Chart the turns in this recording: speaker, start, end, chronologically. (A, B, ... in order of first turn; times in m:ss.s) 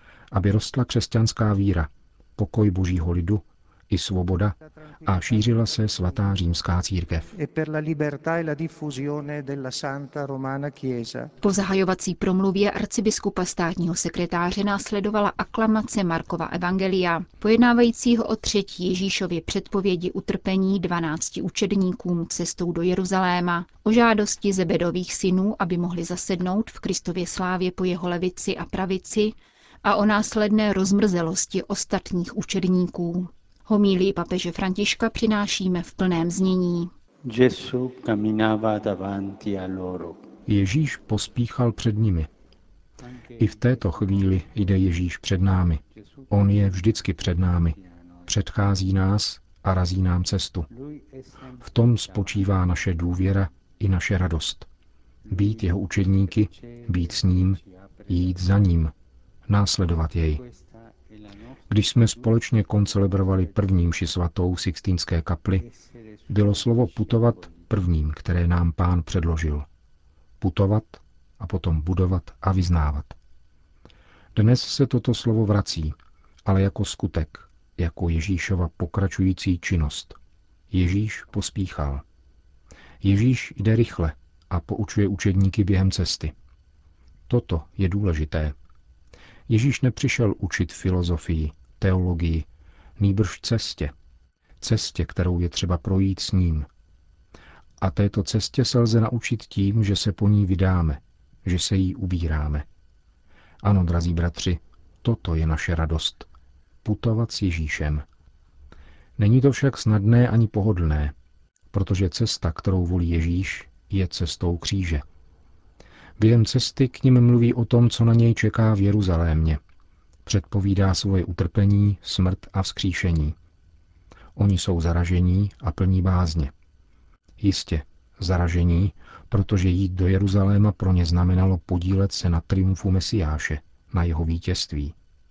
0:00.3-0:07.3 A
0:05.0-0:05.8 B
0:07.3-0:11.3 B
0:11.4-0:36.9 C
0:37.2-0:40.3 D
0:40.5-0:42.3 A
0:43.0-0:44.4 D
0:43.4-0:50.7 A
0:46.0-0:46.7 D
0:47.8-0:48.3 D
0:50.7-0:52.6 D
0:51.6-0:54.7 A
0:55.3-0:58.3 D
0:55.3-0:58.9 A
0:59.5-1:00.4 A
1:00.3-1:02.2 D
1:01.7-1:05.6 A
1:05.6-1:07.7 D
1:06.3-1:09.7 A
1:10.4-1:13.2 A
1:14.4-1:20.2 A
1:20.7-1:22.0 A
1:23.0-1:26.3 A
1:27.3-1:28.6 A
1:29.5-1:32.5 A
1:33.0-1:33.9 A
1:34.6-1:36.7 A
1:37.8-1:42.7 A
1:43.6-1:46.3 A
1:46.8-1:48.0 A
1:49.2-1:51.2 A
1:51.7-1:55.0 A
1:56.2-1:59.6 A
2:00.3-2:03.4 A
2:04.4-2:06.5 A
2:07.4-2:15.0 A